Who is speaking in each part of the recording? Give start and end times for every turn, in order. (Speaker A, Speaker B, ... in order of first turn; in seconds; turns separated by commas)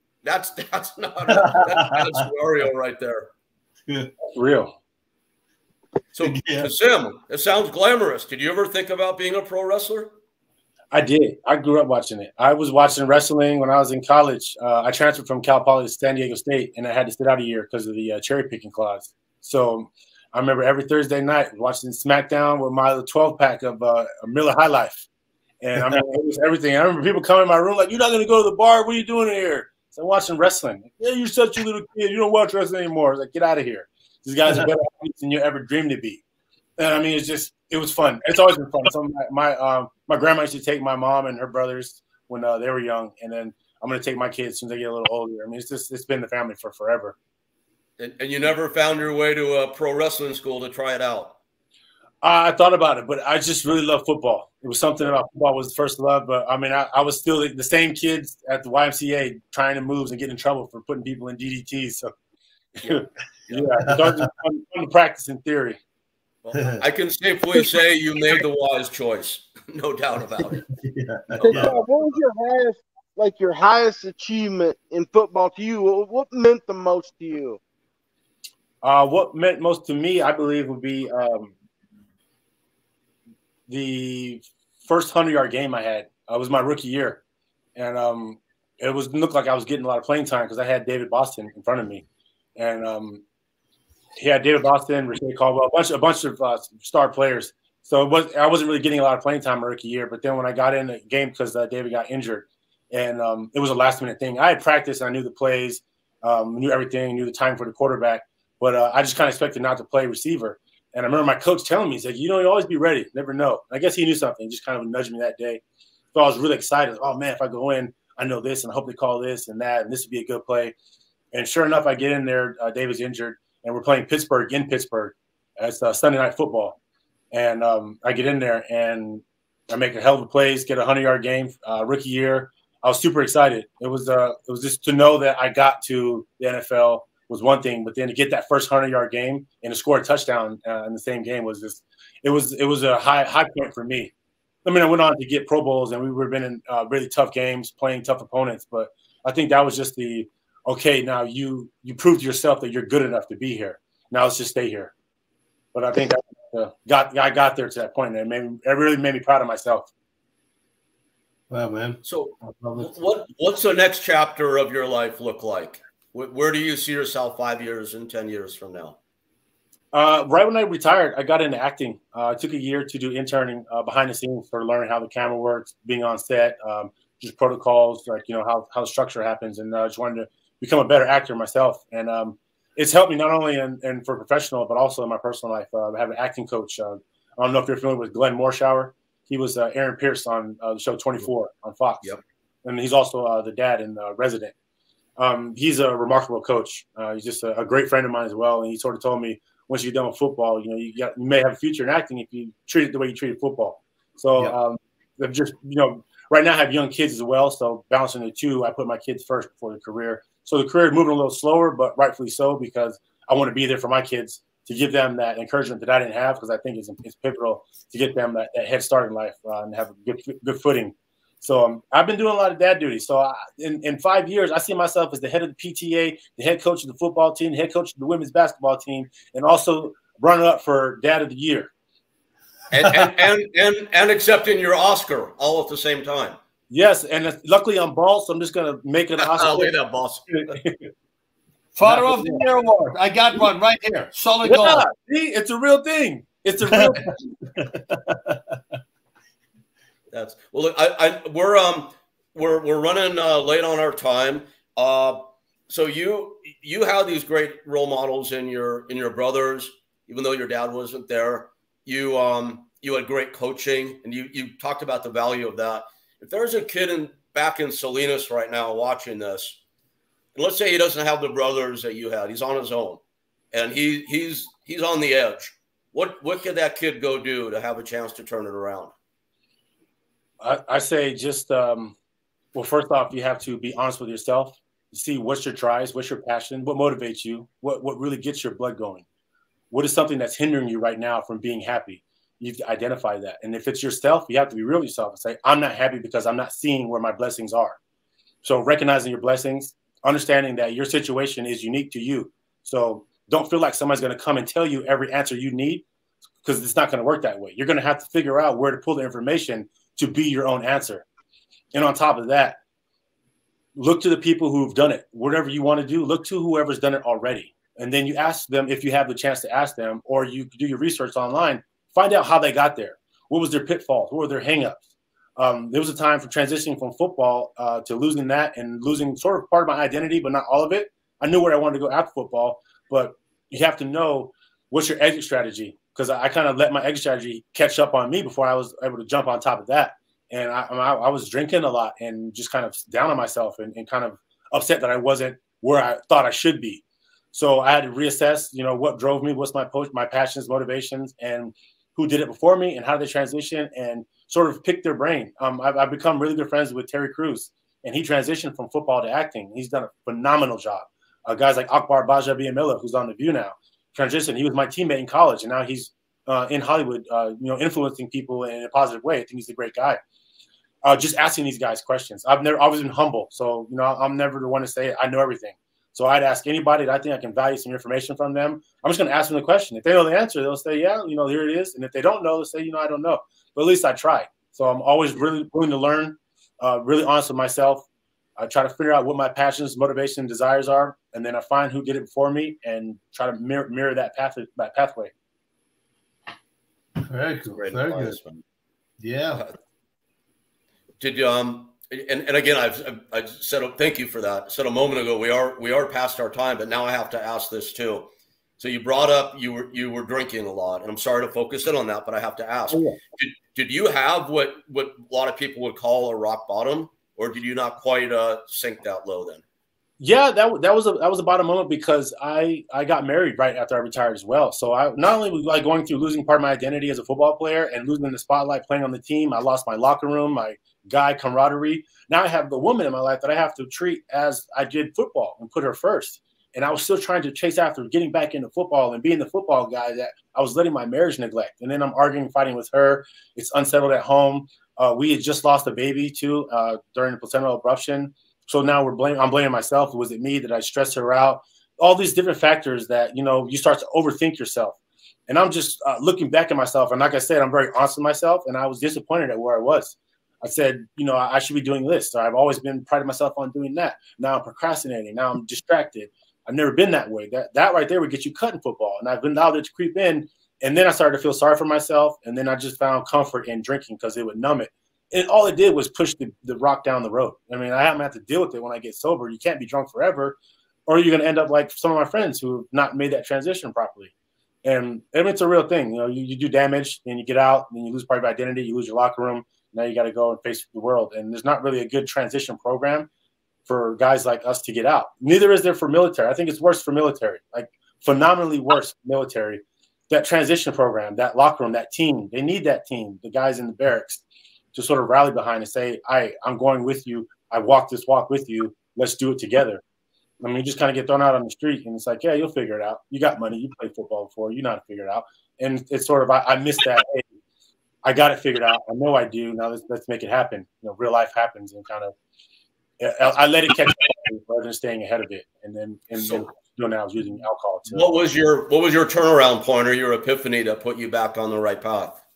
Speaker A: 0.2-3.3, Speaker B: 1.3-2.2, Speaker C: 4.3-4.7, Speaker A: 6.1-10.1, Speaker B: 6.2-6.7, Speaker C: 10.9-25.0, Speaker C: 25.6-36.2, Speaker C: 36.8-47.1, Speaker A: 48.0-51.3, Speaker C: 52.2-62.1, Speaker A: 62.8-63.8, Speaker C: 62.8-65.8, Speaker B: 63.8-64.3, Speaker A: 66.4-70.7, Speaker B: 70.7-71.7, Speaker A: 71.3-72.1, Speaker D: 71.5-77.6, Speaker C: 78.8-81.5, Speaker C: 83.7-87.2, Speaker C: 87.8-92.0, Speaker C: 92.6-93.2, Speaker C: 94.2-115.6, Speaker C: 116.1-120.7, Speaker C: 121.3-126.8, Speaker C: 127.3-144.1, Speaker C: 144.6-154.9, Speaker C: 155.7-159.9, Speaker B: 161.5-162.9, Speaker A: 162.0-168.9, Speaker C: 169.9-192.1, Speaker C: 192.6-194.5, Speaker C: 195.2-231.7, Speaker A: 232.7-236.4, Speaker C: 236.7-239.7, Speaker A: 239.2-240.6, Speaker C: 240.3-240.9, Speaker B: 241.7-244.8, Speaker C: 241.8-242.4, Speaker C: 244.4-247.2, Speaker B: 246.7-248.6, Speaker A: 250.1-269.6, Speaker A: 270.3-273.0, Speaker A: 273.5-278.9, Speaker C: 280.4-281.9, Speaker C: 282.5-289.0, Speaker C: 289.7-297.8, Speaker C: 298.4-305.9, Speaker C: 306.4-311.0, Speaker C: 311.7-312.6, Speaker C: 313.8-324.8, Speaker C: 325.4-346.8, Speaker C: 347.3-370.0, Speaker C: 370.8-387.8, Speaker C: 388.4-395.1, Speaker B: 397.0-398.2, Speaker A: 397.5-398.4, Speaker B: 399.0-399.4, Speaker A: 401.0-419.4, Speaker C: 412.7-413.0, Speaker C: 420.0-454.8, Speaker C: 455.3-484.1, Speaker C: 484.6-493.1, Speaker C: 493.6-504.2, Speaker C: 504.7-509.8, Speaker C: 510.4-517.2, Speaker C: 518.0-522.1, Speaker C: 523.0-528.1, Speaker A: 526.2-526.4, Speaker A: 527.9-532.2